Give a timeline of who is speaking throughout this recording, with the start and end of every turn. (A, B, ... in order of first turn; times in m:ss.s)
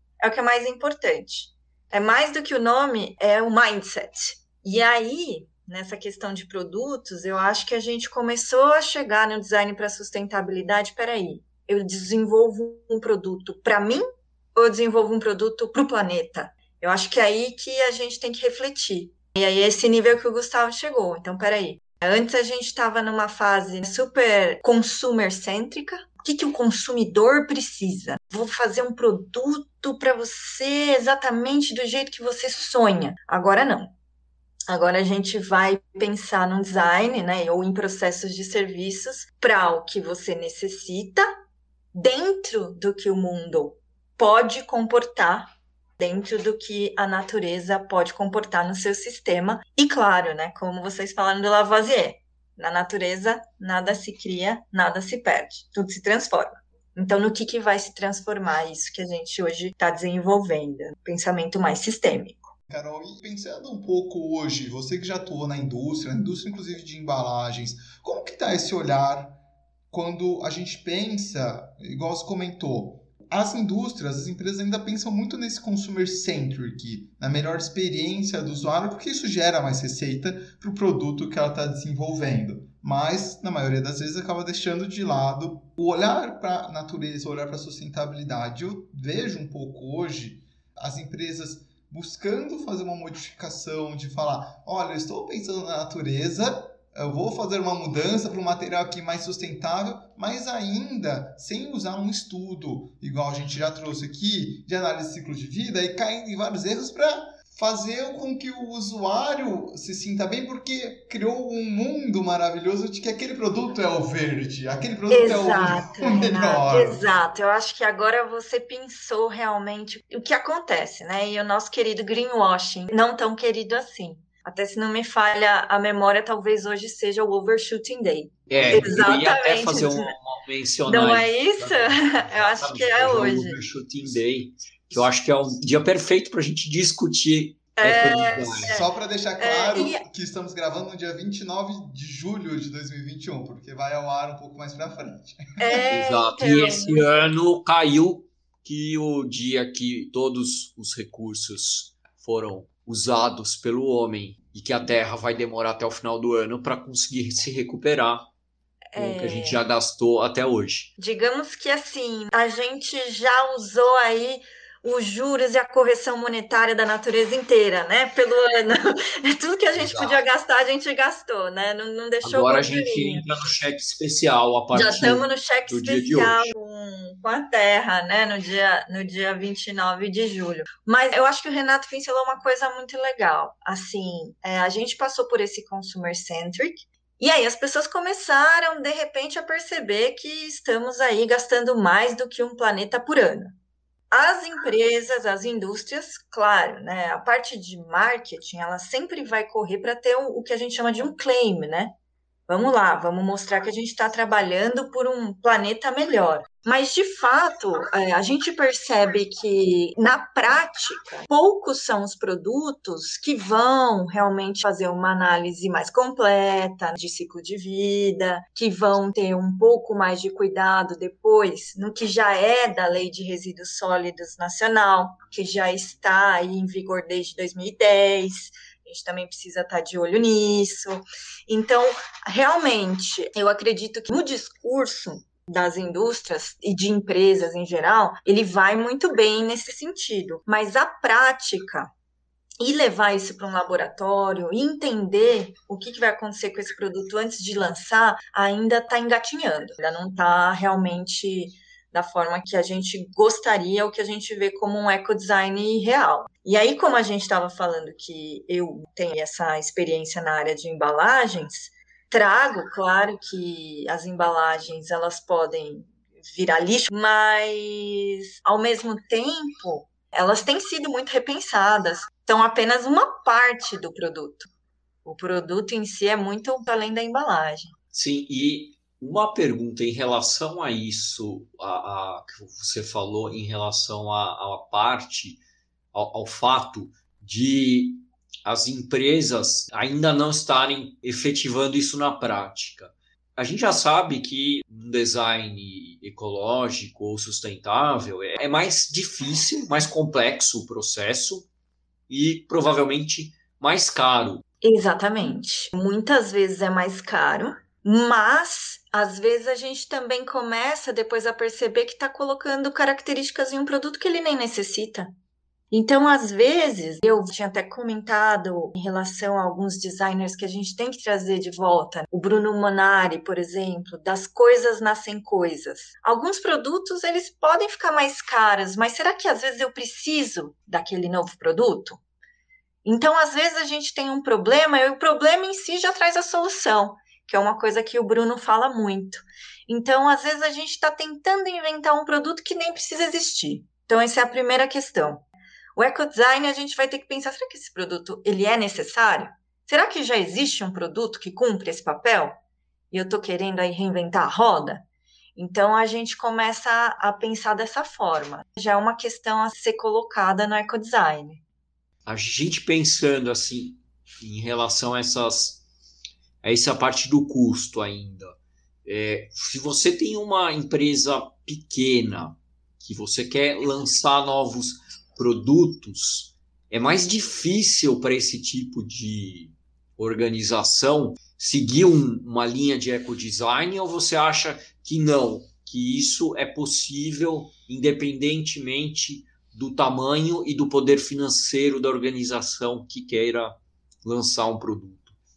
0:00.2-0:14.0 A
0:14.5-0:33.9 A
0:34.7-0:41.3 A
0:41.9-1:02.5 A
1:02.7-1:09.4 B
1:09.9-1:57.0 B
1:55.1-2:10.1 A
2:08.5-2:18.8 C
2:10.9-2:13.6 A
2:17.8-2:18.9 A
2:18.6-2:25.4 B
2:19.4-2:20.0 A
2:25.6-2:27.3 A
2:25.9-2:38.2 C
2:38.9-2:39.6 A
2:39.0-2:40.9 C
2:41.0-2:53.2 A
2:49.7-2:50.2 C
2:52.2-2:56.5 C
2:54.7-3:13.5 A
3:14.1-3:21.9 A
3:22.5-4:01.9 A
4:02.6-4:34.5 A
4:35.0-4:37.7 A
4:37.9-4:45.4 C
4:45.9-5:01.5 C
5:02.1-5:04.4 C
5:04.6-5:15.1 A
5:15.7-5:32.0 A
5:32.8-5:45.2 A
5:45.8-5:52.3 A
5:52.9-5:54.8 A
5:55.4-6:01.4 A
6:02.0-6:05.6 C
6:06.4-6:08.3 C
6:08.8-6:35.2 C